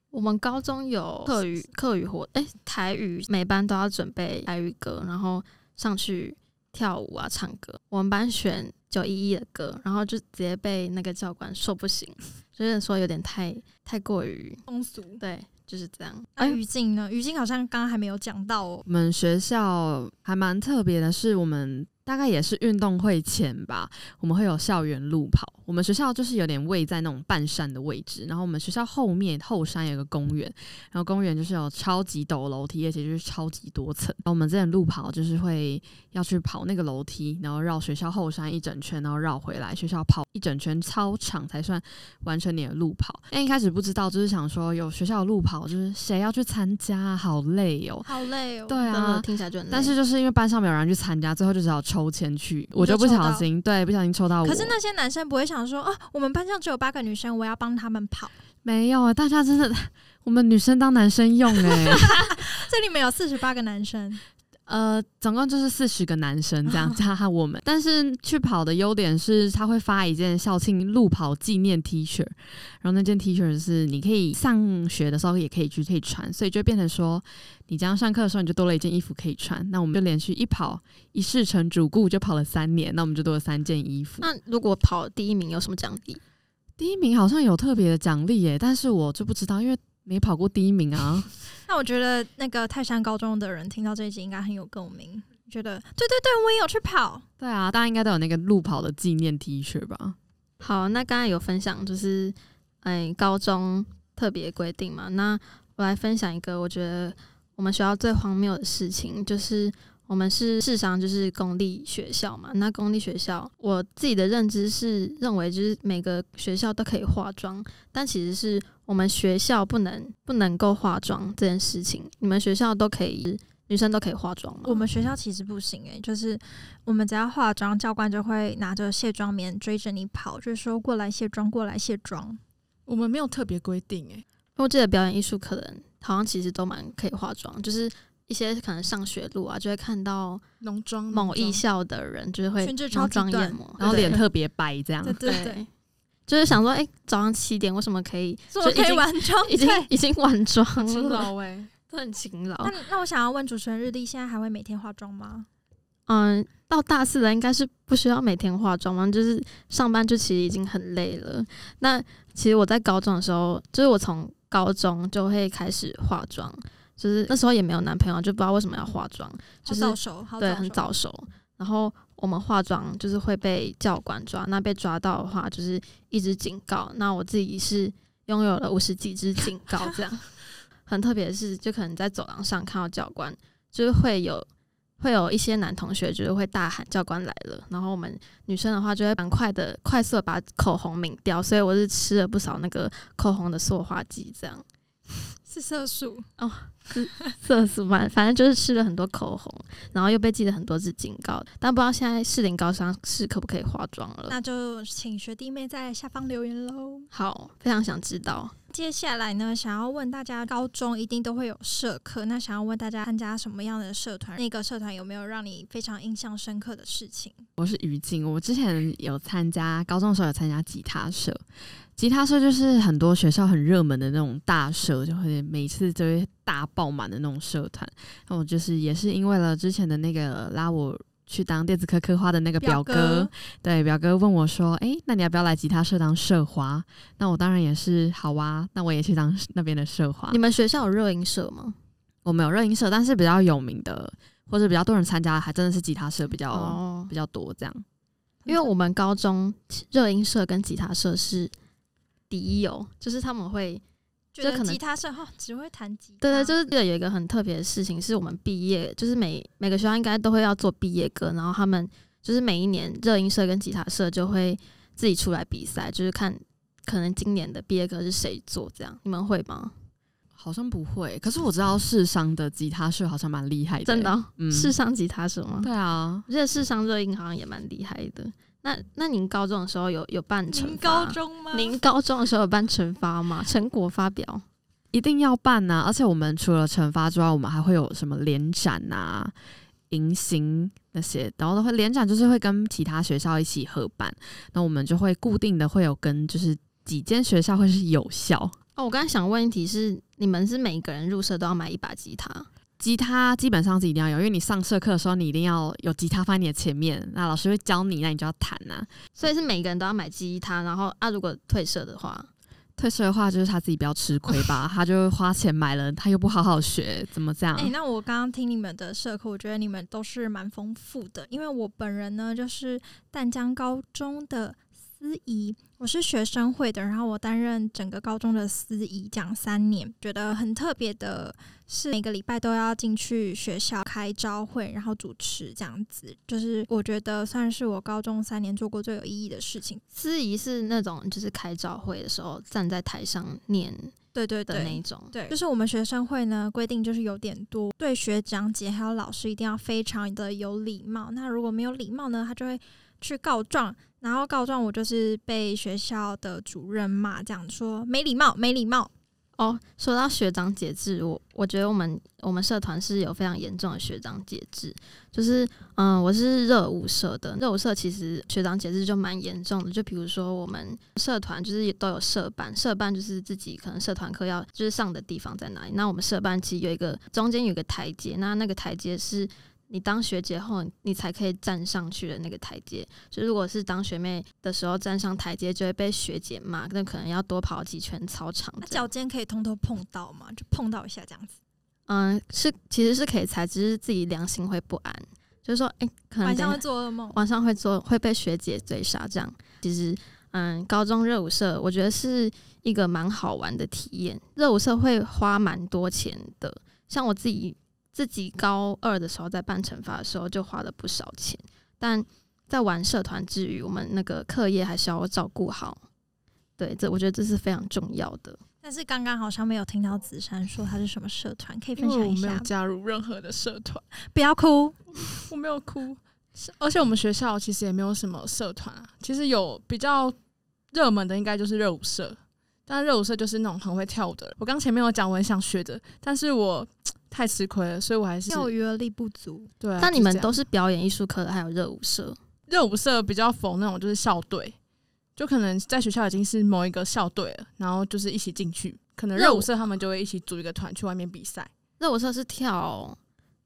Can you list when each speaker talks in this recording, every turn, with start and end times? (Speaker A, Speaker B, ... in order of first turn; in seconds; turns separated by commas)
Speaker A: 0.1-14.6, Speaker B: 1.3-1.7, Speaker B: 14.7-15.2, Speaker A: 15.2-16.6, Speaker B: 16.4-18.8, Speaker C: 18.9-48.1, Speaker B: 48.0-48.8, Speaker C: 48.7-54.8, Speaker A: 48.9-50.0, Speaker B: 52.8-53.5, Speaker B: 54.4-58.3, Speaker C: 58.6-62.2, Speaker B: 61.6-64.2, Speaker C: 64.7-84.3, Speaker A: 84.2-86.2, Speaker C: 86.8-91.3, Speaker B: 91.7-97.3, Speaker C: 97.4-100.2, Speaker A: 100.6-124.8, Speaker B: 124.6-132.4, Speaker D: 132.9-134.2, Speaker A: 134.6-140.4, Speaker D: 140.6-141.6, Speaker A: 141.1-144.2, Speaker B: 142.6-144.2, Speaker C: 143.8-145.3, Speaker B: 145.0-145.6, Speaker A: 145.2-145.7, Speaker A: 146.3-151.3, Speaker B: 148.5-149.9, Speaker D: 150.8-151.7, Speaker A: 151.9-152.7, Speaker B: 152.6-155.5, Speaker A: 156.1-180.3, Speaker B: 169.7-170.9, Speaker A: 180.9-184.5, Speaker A: 185.0-194.7, Speaker B: 195.5-196.3, Speaker A: 196.4-204.4, Speaker B: 204.3-207.1, Speaker A: 207.1-208.5, Speaker B: 208.7-217.4, Speaker C: 217.6-221.4, Speaker C: 222.0-240.4, Speaker B: 232.6-233.3, Speaker A: 240.3-241.8, Speaker C: 242.2-247.8, Speaker A: 246.5-247.1, Speaker B: 248.4-248.7, Speaker A: 248.5-251.5, Speaker A: 252.3-253.8, Speaker B: 254.4-256.6, Speaker A: 254.4-254.8, Speaker A: 256.2-269.8, Speaker C: 270.4-274.7, Speaker A: 273.9-275.7, Speaker C: 275.6-276.3, Speaker A: 276.3-284.4, Speaker B: 280.5-281.8, Speaker C: 284.9-289.3, Speaker C: 289.9-298.6, Speaker A: 298.8-302.5, Speaker C: 302.8-308.9, Speaker A: 309.2-312.3, Speaker C: 312.8-317.8, Speaker B: 317.6-339.8, Speaker A: 339.9-343.9, Speaker B: 344.1-358.9, Speaker A: 344.5-345.1, Speaker A: 359.4-388.9, Speaker B: 388.6-391.4, Speaker A: 391.9-415.8, Speaker B: 396.2-397.2, Speaker A: 416.6-418.4, Speaker B: 418.6-422.5, Speaker D: 421.8-423.9, Speaker B: 424.0-424.8, Speaker D: 425.1-430.2, Speaker D: 430.7-438.5, Speaker B: 438.3-439.5, Speaker D: 439.6-440.4, Speaker A: 439.8-442.2, Speaker D: 442.5-444.6, Speaker D: 445.2-451.5, Speaker A: 449.2-449.5, Speaker A: 451.8-453.0